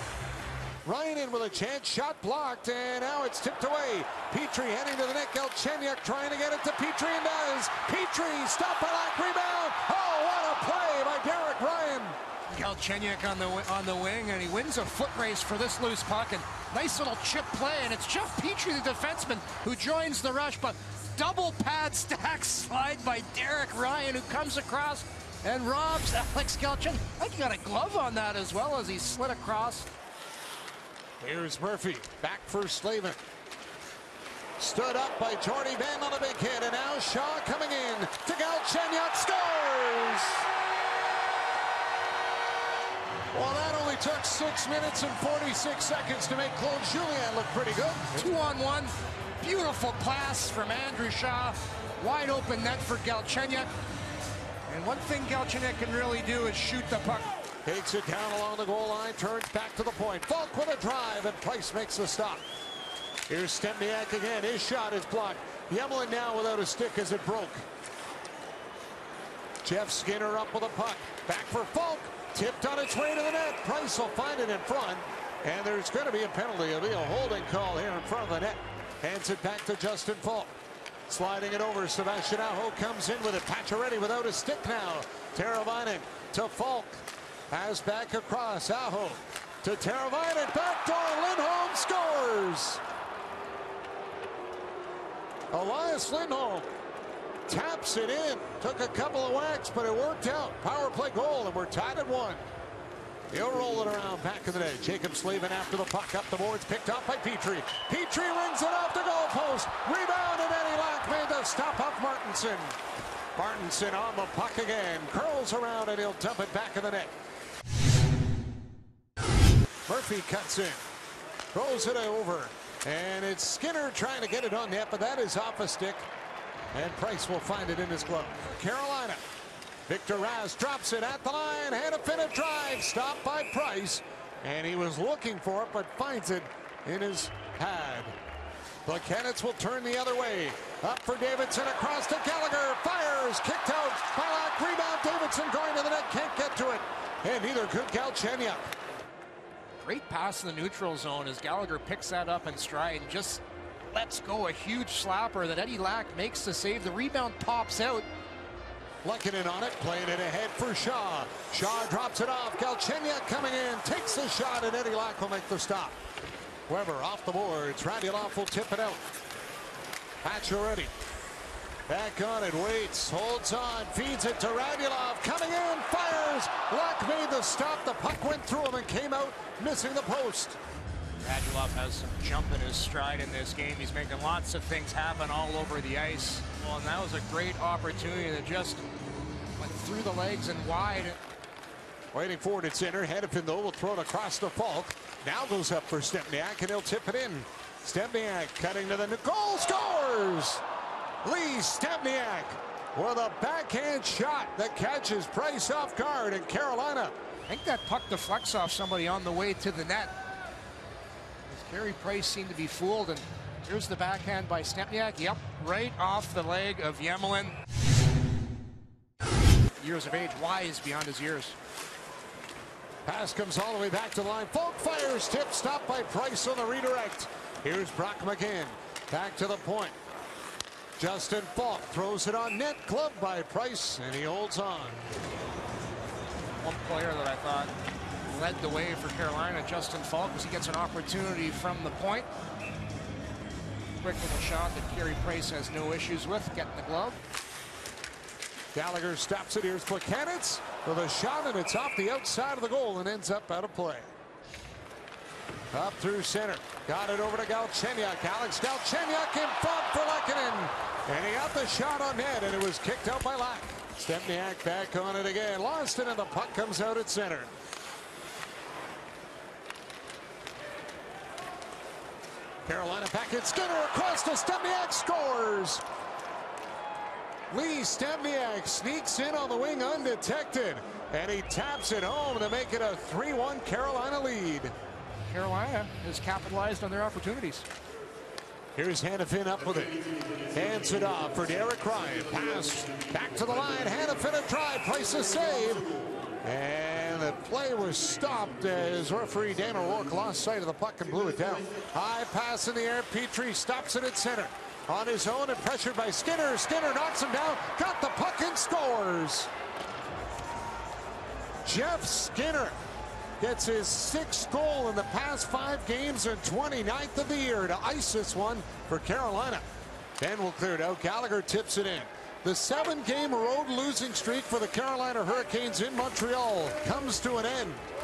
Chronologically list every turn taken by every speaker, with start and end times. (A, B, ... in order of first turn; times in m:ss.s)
0:00.8-0:12.2 A
0:12.5-0:29.9 B
0:31.2-0:33.2 A
0:34.6-0:40.5 A
0:43.3-0:48.3 A
0:48.1-0:53.7 B
0:54.7-0:57.3 B
0:57.6-1:02.4 A
1:03.3-1:07.6 A
1:09.6-1:20.5 A
1:21.1-1:32.8 A
1:35.5-1:36.7 A
1:37.5-1:42.4 A
1:43.3-1:52.8 A
1:53.4-1:57.1 A
1:59.9-2:00.8 A
2:01.5-2:06.1 A
2:06.7-2:09.2 A
2:09.9-2:18.2 A
2:18.8-2:28.7 A
2:29.8-2:38.1 B
2:39.0-2:46.0 A
2:46.7-2:49.1 A
2:50.2-2:50.9 A
2:51.9-3:00.6 A
3:01.2-3:08.8 B
3:09.6-3:11.2 B
3:12.1-3:20.6 A
3:21.2-3:27.2 A
3:27.5-3:30.1 B
3:31.5-3:37.6 B
3:39.8-3:41.6 B
3:43.1-3:50.0 A
3:51.0-3:55.0 A
3:56.6-3:57.7 B
3:58.3-4:02.3 B
4:04.0-4:07.2 B
4:08.7-4:14.1 A
4:15.7-4:27.5 A
4:32.6-4:35.8 A
4:37.5-4:44.7 A
4:45.2-4:47.7 B
4:48.8-4:50.0 A
4:50.5-4:55.8 A
4:56.4-5:09.5 A
5:11.6-5:12.8 A
5:13.4-5:19.6 A
5:20.2-5:27.8 A